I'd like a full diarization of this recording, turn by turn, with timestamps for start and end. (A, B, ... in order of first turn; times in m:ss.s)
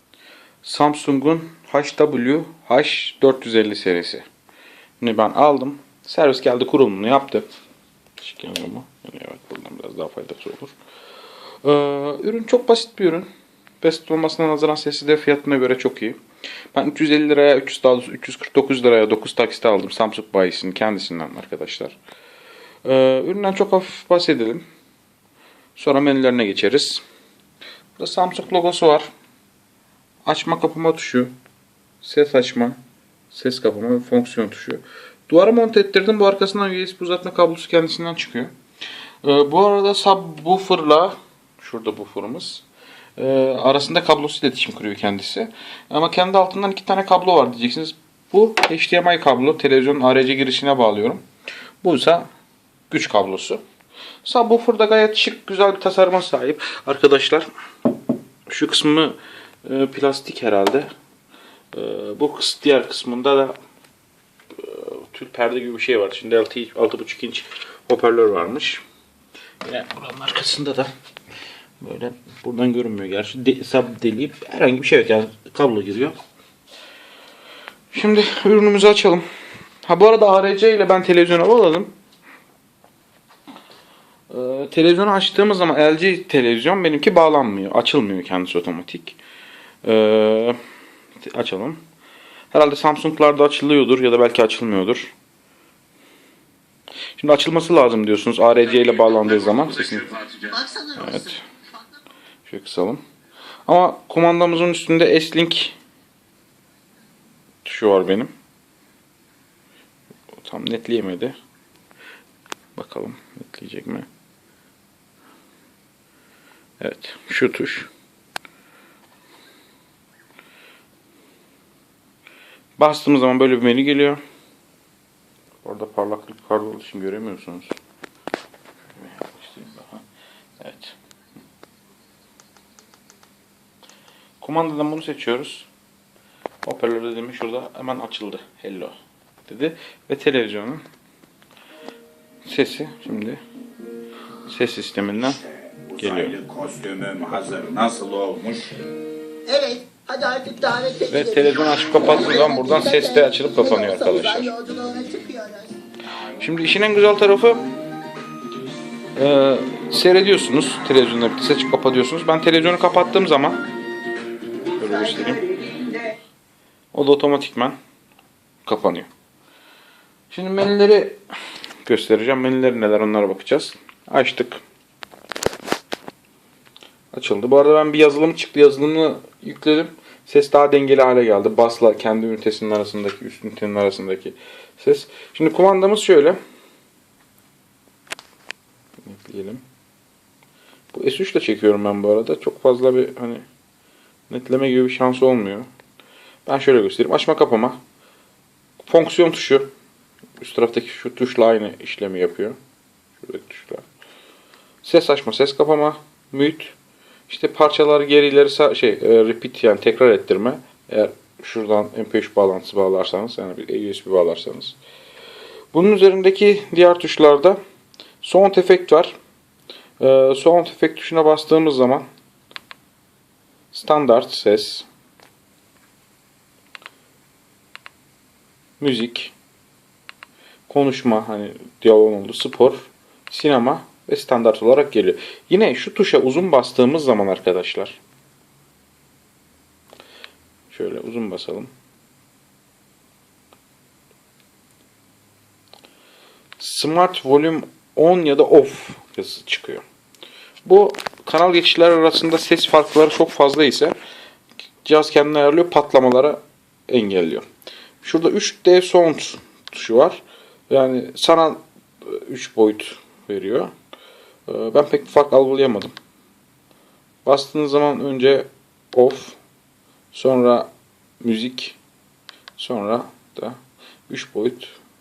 0:00.6-0:04.2 A
0:05.0-0:07.4 A
0:08.2-0:10.7 A
0:11.6-0:13.3 A
0:13.8-0:16.2 A
0:16.7-0:22.0 A
0:22.8-0:24.6 A
0:25.8-0:27.0 A
0:28.0-0:29.1 A
0:30.2-0:31.3 A
0:32.0-0:32.8 A
0:33.3-0:38.5 A
0:39.2-0:42.6 A
0:43.2-0:51.2 A
0:51.8-0:52.3 A
0:52.9-0:53.6 A
0:54.2-0:57.5 A
0:58.5-1:00.9 A
1:01.7-1:03.6 A
1:04.5-1:08.8 A
1:09.6-1:10.9 A
1:11.8-1:16.2 A
1:17.9-1:19.2 A
1:19.8-1:21.9 A
1:24.3-1:29.2 A
1:29.8-1:30.6 A
1:31.2-1:31.8 A
1:32.5-1:35.1 A
1:37.2-1:41.4 A
1:40.6-1:40.8 B
1:42.4-1:43.0 A
1:43.7-1:45.8 A
1:47.6-1:48.3 A
1:50.3-1:51.4 A
1:52.8-1:54.1 A
1:56.8-1:57.9 A
2:02.8-2:04.2 A
2:05.6-2:07.7 A
2:08.9-2:10.0 A
2:10.6-2:11.0 A
2:14.4-2:15.7 A
2:16.6-2:18.9 A
2:19.5-2:20.8 A
2:22.4-2:23.4 A
2:24.5-2:25.4 A
2:25.9-2:28.7 C
2:26.0-2:26.4 A
2:29.4-2:31.3 B
2:31.1-2:34.6 A
2:32.4-2:35.7 B
2:36.4-2:37.6 A
2:39.1-2:43.6 A
2:44.7-2:45.5 A
2:45.4-2:46.2 B
2:46.9-2:47.8 A
2:48.6-2:49.1 A
2:50.3-2:51.2 A
2:51.8-2:54.6 A
2:57.1-3:06.4 A
3:09.0-3:09.6 A
3:10.9-3:13.4 A
3:14.3-3:15.7 A
3:16.4-3:17.8 A
3:18.8-3:19.7 A
3:20.4-3:22.6 A
3:23.2-3:23.8 A
3:24.8-3:26.7 A
3:27.3-3:34.8 A
3:35.7-3:37.6 A
3:38.2-3:39.1 A
3:40.0-3:42.0 A
3:43.7-3:44.9 A
3:48.8-3:49.3 A
3:50.7-3:58.0 A
4:00.7-4:01.7 A
4:06.6-4:09.8 A
4:10.6-4:13.9 A
4:14.8-4:17.4 A
4:18.0-4:23.7 A
4:24.5-4:25.9 A
4:27.2-4:29.4 A
4:30.1-4:30.7 A
4:31.2-4:31.8 A
4:32.6-4:34.8 A